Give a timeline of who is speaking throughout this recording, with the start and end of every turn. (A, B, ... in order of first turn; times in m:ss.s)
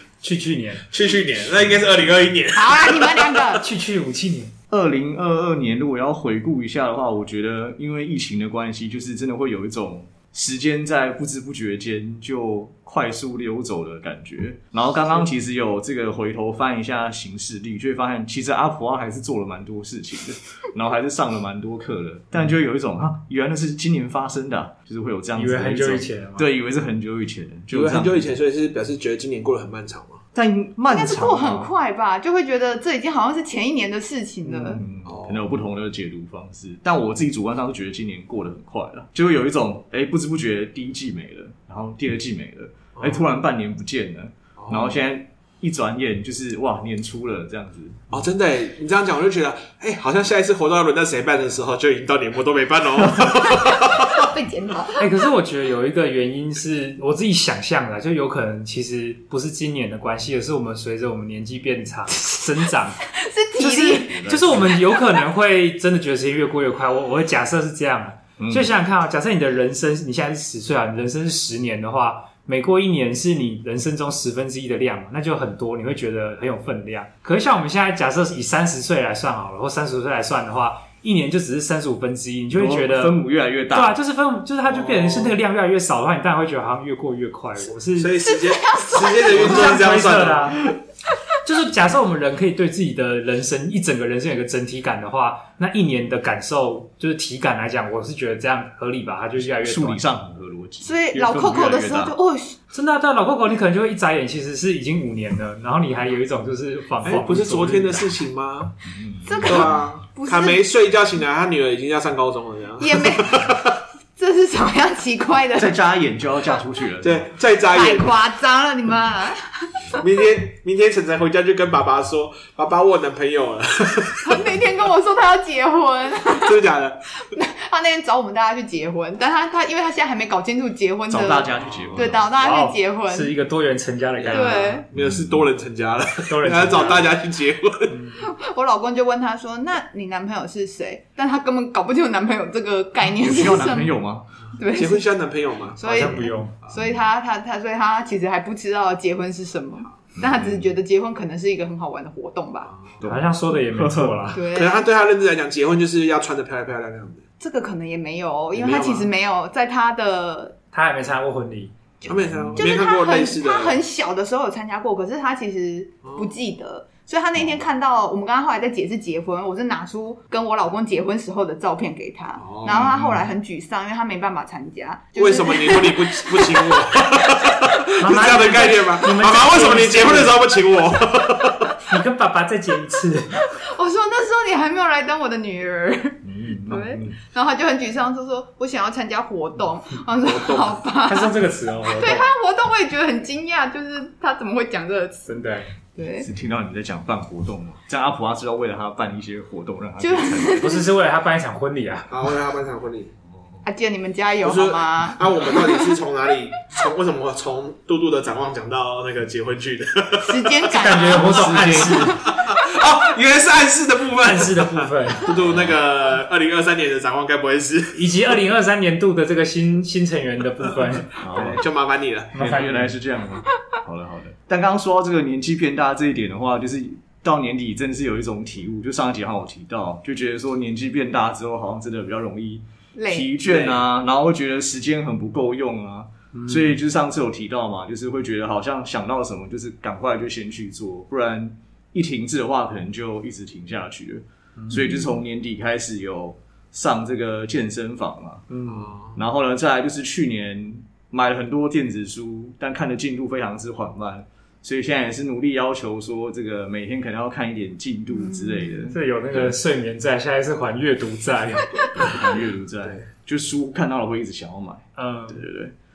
0:00.2-0:00.9 A
0:00.9-0:03.4 B
0:02.5-0:03.7 C
0:03.6-0:04.5 A
0:04.7-0:28.3 D
0:25.4-0:26.5 A
0:27.7-0:30.2 B
0:30.3-0:31.7 D
0:30.9-0:34.8 C
0:34.4-0:48.2 D
0:35.0-0:35.5 B
0:43.0-0:43.3 B
0:44.6-0:45.0 B
0:48.1-0:54.3 B
0:54.2-0:55.0 C
0:55.0-1:03.0 A
1:03.1-1:04.2 C
1:03.6-1:23.2 A
1:04.1-1:04.8 D
1:08.4-1:08.7 D
1:22.6-1:24.0 D
1:23.7-1:28.2 A
1:24.7-1:25.4 B
1:28.0-1:30.6 B
1:28.2-1:29.6 C
1:29.3-1:30.7 A
1:31.4-1:40.0 A
1:39.4-1:42.2 D
1:40.8-1:42.6 C
1:42.7-1:48.2 A
1:47.0-1:48.8 B
1:48.9-1:49.8 D
1:49.2-1:50.6 C
1:49.4-1:53.8 B
1:52.8-1:53.5 C
1:54.2-1:55.8 C
1:55.6-1:57.3 D
1:57.0-1:58.1 B
1:57.7-1:59.9 C
2:00.0-2:04.5 B
2:04.2-2:06.6 C
2:06.3-2:07.1 B
2:07.3-2:13.3 C
2:11.1-2:12.3 D
2:11.6-2:12.0 B
2:12.4-2:14.8 A
2:14.2-2:18.0 B
2:14.3-2:14.9 C
2:14.9-2:15.4 D
2:16.3-2:17.2 A
2:17.9-2:18.2 A
2:18.2-2:24.0 C
2:23.2-2:24.3 D
2:24.6-2:25.1 C
2:24.7-2:26.0 B
2:25.8-2:32.7 C
2:25.8-2:26.6 A
2:30.2-2:30.7 D
2:32.7-2:33.0 B
2:33.0-2:34.3 D
2:33.0-2:34.5 A
2:34.3-2:34.9 C
2:34.5-2:37.2 B
2:37.4-2:40.6 C
2:38.5-2:39.1 B
2:40.7-2:41.8 A
2:42.0-2:43.8 B
2:42.1-2:42.6 D
2:42.6-2:56.9 C
2:46.0-2:46.3 B
2:52.4-2:53.0 B
2:55.2-3:01.8 B
2:58.0-3:00.4 A
3:01.8-3:03.5 A
3:03.5-3:16.3 C
3:06.3-3:07.1 D
3:10.2-3:10.8 B
3:11.0-3:12.3 A
3:15.3-3:15.7 A
3:16.2-3:20.8 D
3:20.0-3:20.9 C
3:20.6-3:22.3 A
3:22.1-3:23.1 B
3:23.6-3:26.0 C
3:24.4-3:30.6 B
3:30.2-3:32.3 C
3:30.7-3:32.3 A
3:31.3-3:32.1 D
3:31.4-3:38.0 B
3:34.2-3:35.4 A
3:35.4-3:35.8 D
3:38.0-3:41.6 A
3:41.2-3:41.6 D
3:41.4-3:42.4 B
3:42.3-3:43.0 A
3:42.4-4:08.5 D
3:53.0-3:53.4 C
3:53.5-3:53.8 B
3:56.4-3:56.8 A
4:04.6-4:05.2 A
4:08.5-4:09.0 A
4:08.7-4:09.2 B
4:09.2-4:19.6 D
4:18.2-4:18.8 C
4:18.9-4:22.1 A
4:21.9-4:25.7 D
4:25.0-4:25.4 A